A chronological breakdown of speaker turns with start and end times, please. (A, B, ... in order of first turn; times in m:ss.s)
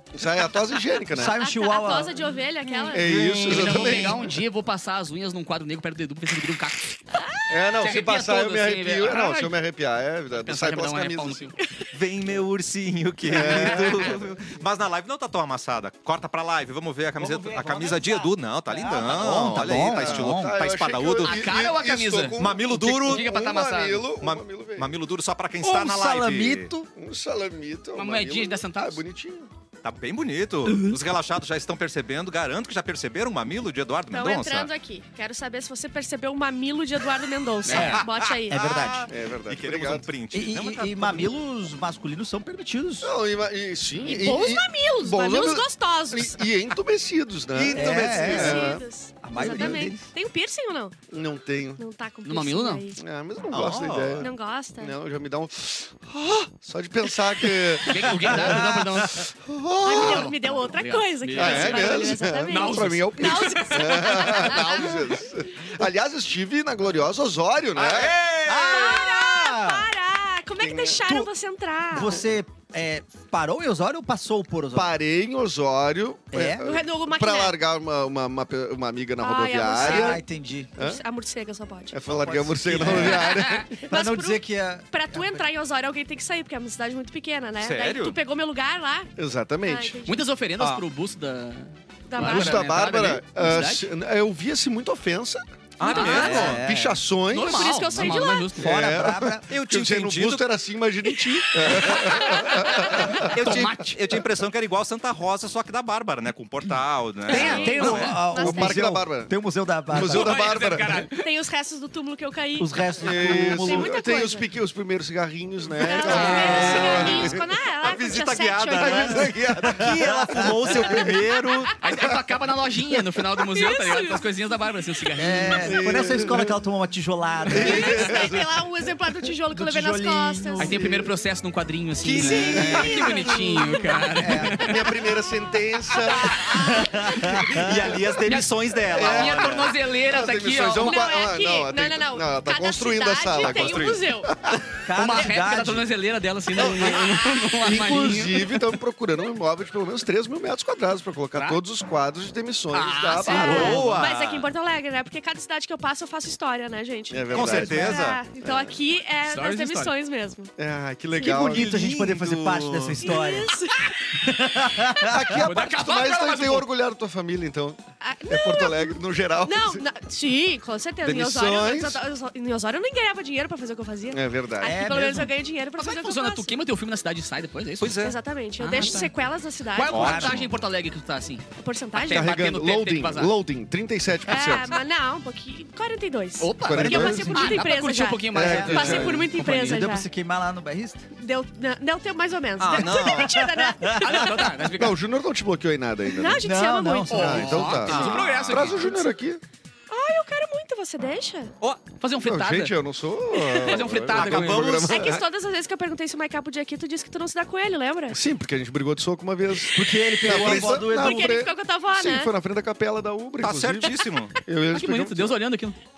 0:00.1-0:01.4 A
0:01.1-0:02.2 B
0:01.2-0:03.1 C
0:02.9-0:04.4 A
0:03.0-0:04.1 D
0:03.1-0:07.2 E
0:07.1-0:07.9 C
0:07.5-0:11.5 A
0:07.7-0:09.6 E
0:10.3-0:11.6 E
0:11.6-0:11.9 C
0:11.9-0:21.5 D
0:13.3-0:14.3 A
0:13.7-0:14.2 B
0:17.2-0:20.6 B
0:19.2-0:24.9 A
0:21.2-0:22.4 E
0:22.4-0:23.3 D
0:23.0-0:24.1 E
0:24.2-0:26.7 D
0:25.6-0:26.9 B
0:27.0-0:29.5 A
0:28.0-0:29.0 E
0:29.8-0:34.7 D
0:30.7-0:31.0 B
0:34.1-0:38.8 C
0:37.6-0:38.0 E
0:37.7-0:41.3 D
0:38.5-0:39.1 B
0:39.1-0:40.1 A
0:40.3-0:43.1 B
0:43.0-0:48.8 A
0:44.0-0:46.5 C
0:47.5-0:50.1 B
0:47.8-0:51.0 C
0:49.4-0:49.8 A
0:51.1-0:51.8 A
0:51.8-0:53.0 C
0:52.2-0:52.8 E
0:53.0-1:00.3 A
0:53.5-0:54.3 D
0:53.6-0:53.9 B
0:54.2-0:55.0 C
0:57.9-0:59.3 E
0:58.2-0:59.0 B
0:59.8-1:05.1 C
0:59.9-1:05.0 E
1:01.4-1:08.2 A
1:07.7-1:09.0 D
1:08.4-1:09.9 B
1:08.5-1:12.2 C
1:10.6-1:11.0 A
1:11.9-1:14.9 B
1:14.7-1:20.2 A
1:16.3-1:16.7 B
1:16.6-1:17.6 C
1:19.2-1:20.2 C
1:19.8-1:20.8 B
1:20.8-1:22.0 C
1:21.9-1:23.8 A
1:22.1-1:23.2 D
1:22.8-1:23.2 B
1:22.8-1:23.6 E
1:23.5-1:29.1 C
1:23.9-1:25.5 B
1:27.6-1:28.2 D
1:29.2-1:30.0 A
1:29.6-1:30.2 C
1:30.0-1:33.9 E
1:32.1-1:32.6 C
1:32.2-1:37.8 A
1:35.8-1:36.7 D
1:35.8-1:36.3 C
1:35.9-1:36.1 E
1:36.0-1:37.0 B
1:37.3-1:38.9 E
1:37.3-1:38.6 C
1:38.6-1:39.5 B
1:38.6-1:43.7 A
1:39.5-1:40.5 D
1:41.8-1:42.0 D
1:42.0-1:43.3 C
1:42.7-1:48.2 D
1:43.2-1:44.0 E
1:47.3-1:50.4 B
1:47.3-1:48.8 C
1:47.7-1:48.1 E
1:48.0-1:49.3 A
1:49.9-1:51.0 A
1:49.9-1:51.3 E
1:51.1-1:54.5 C
1:52.6-1:54.0 B
1:53.0-1:57.4 A
1:55.8-1:59.3 C
1:56.0-1:56.6 E
1:56.1-1:57.2 D
1:56.1-1:57.1 B
1:57.8-2:01.8 D
1:58.8-2:01.2 A
1:59.6-2:00.7 B
2:01.0-2:01.8 C
2:01.8-2:05.7 E
2:03.5-2:04.2 C
2:05.2-2:08.3 B
2:05.6-2:06.6 A
2:07.5-2:08.6 A
2:07.5-2:10.8 C
2:09.5-2:10.8 B
2:10.6-2:14.9 E
2:10.7-2:11.1 A
2:12.0-2:13.0 D
2:12.2-2:14.2 C
2:12.2-2:13.1 B
2:12.5-2:13.3 A
2:14.2-2:14.6 B
2:14.5-2:18.2 A
2:15.9-2:17.4 C
2:16.5-2:18.0 B
2:17.5-2:19.8 D
2:18.2-2:21.1 E
2:18.9-2:24.6 A
2:20.8-2:24.3 C
2:23.4-2:24.0 D
2:24.8-2:25.9 B
2:24.9-2:28.7 E
2:26.6-2:34.1 A
2:31.3-2:31.6 E
2:32.7-2:33.8 E
2:33.2-2:40.5 C
2:33.5-2:34.5 D
2:37.1-2:38.8 A
2:37.3-2:38.2 D
2:39.2-2:39.9 E
2:40.6-2:43.2 A
2:41.2-2:43.6 B
2:43.0-2:45.0 C
2:44.2-2:45.3 B
2:45.0-2:49.8 A
2:45.3-2:46.7 E
2:48.0-2:56.6 C
2:51.0-2:52.0 A
2:54.1-2:54.8 A
2:54.6-2:55.3 B
2:55.8-2:59.1 E
2:57.8-2:58.2 D
2:58.0-3:00.4 C
2:59.7-3:03.3 E
2:59.8-3:00.5 D
2:59.9-3:00.4 B
3:01.6-3:02.4 C
3:02.0-3:04.7 A
3:04.3-3:10.1 C
3:06.4-3:09.9 E
3:06.6-3:07.4 A
3:06.7-3:07.6 B
3:08.3-3:09.3 A
3:08.3-3:11.1 B
3:11.2-3:14.4 C
3:12.6-3:13.5 D
3:12.8-3:14.4 B
3:14.0-3:15.0 E
3:14.7-3:16.5 A
3:16.1-3:17.4 C
3:16.4-3:17.8 B
3:17.1-3:19.4 A
3:17.1-3:18.8 E
3:17.8-3:18.8 D
3:18.8-3:19.1 C
3:19.9-3:21.5 C
3:22.0-3:22.8 E
3:22.2-3:25.2 A
3:23.3-3:23.9 C
3:23.6-3:24.8 E
3:24.1-3:25.2 D
3:24.9-3:28.2 C
3:28.1-3:35.4 A
3:29.7-3:31.4 B
3:30.2-3:32.3 C
3:33.4-3:34.4 D
3:34.7-3:35.8 E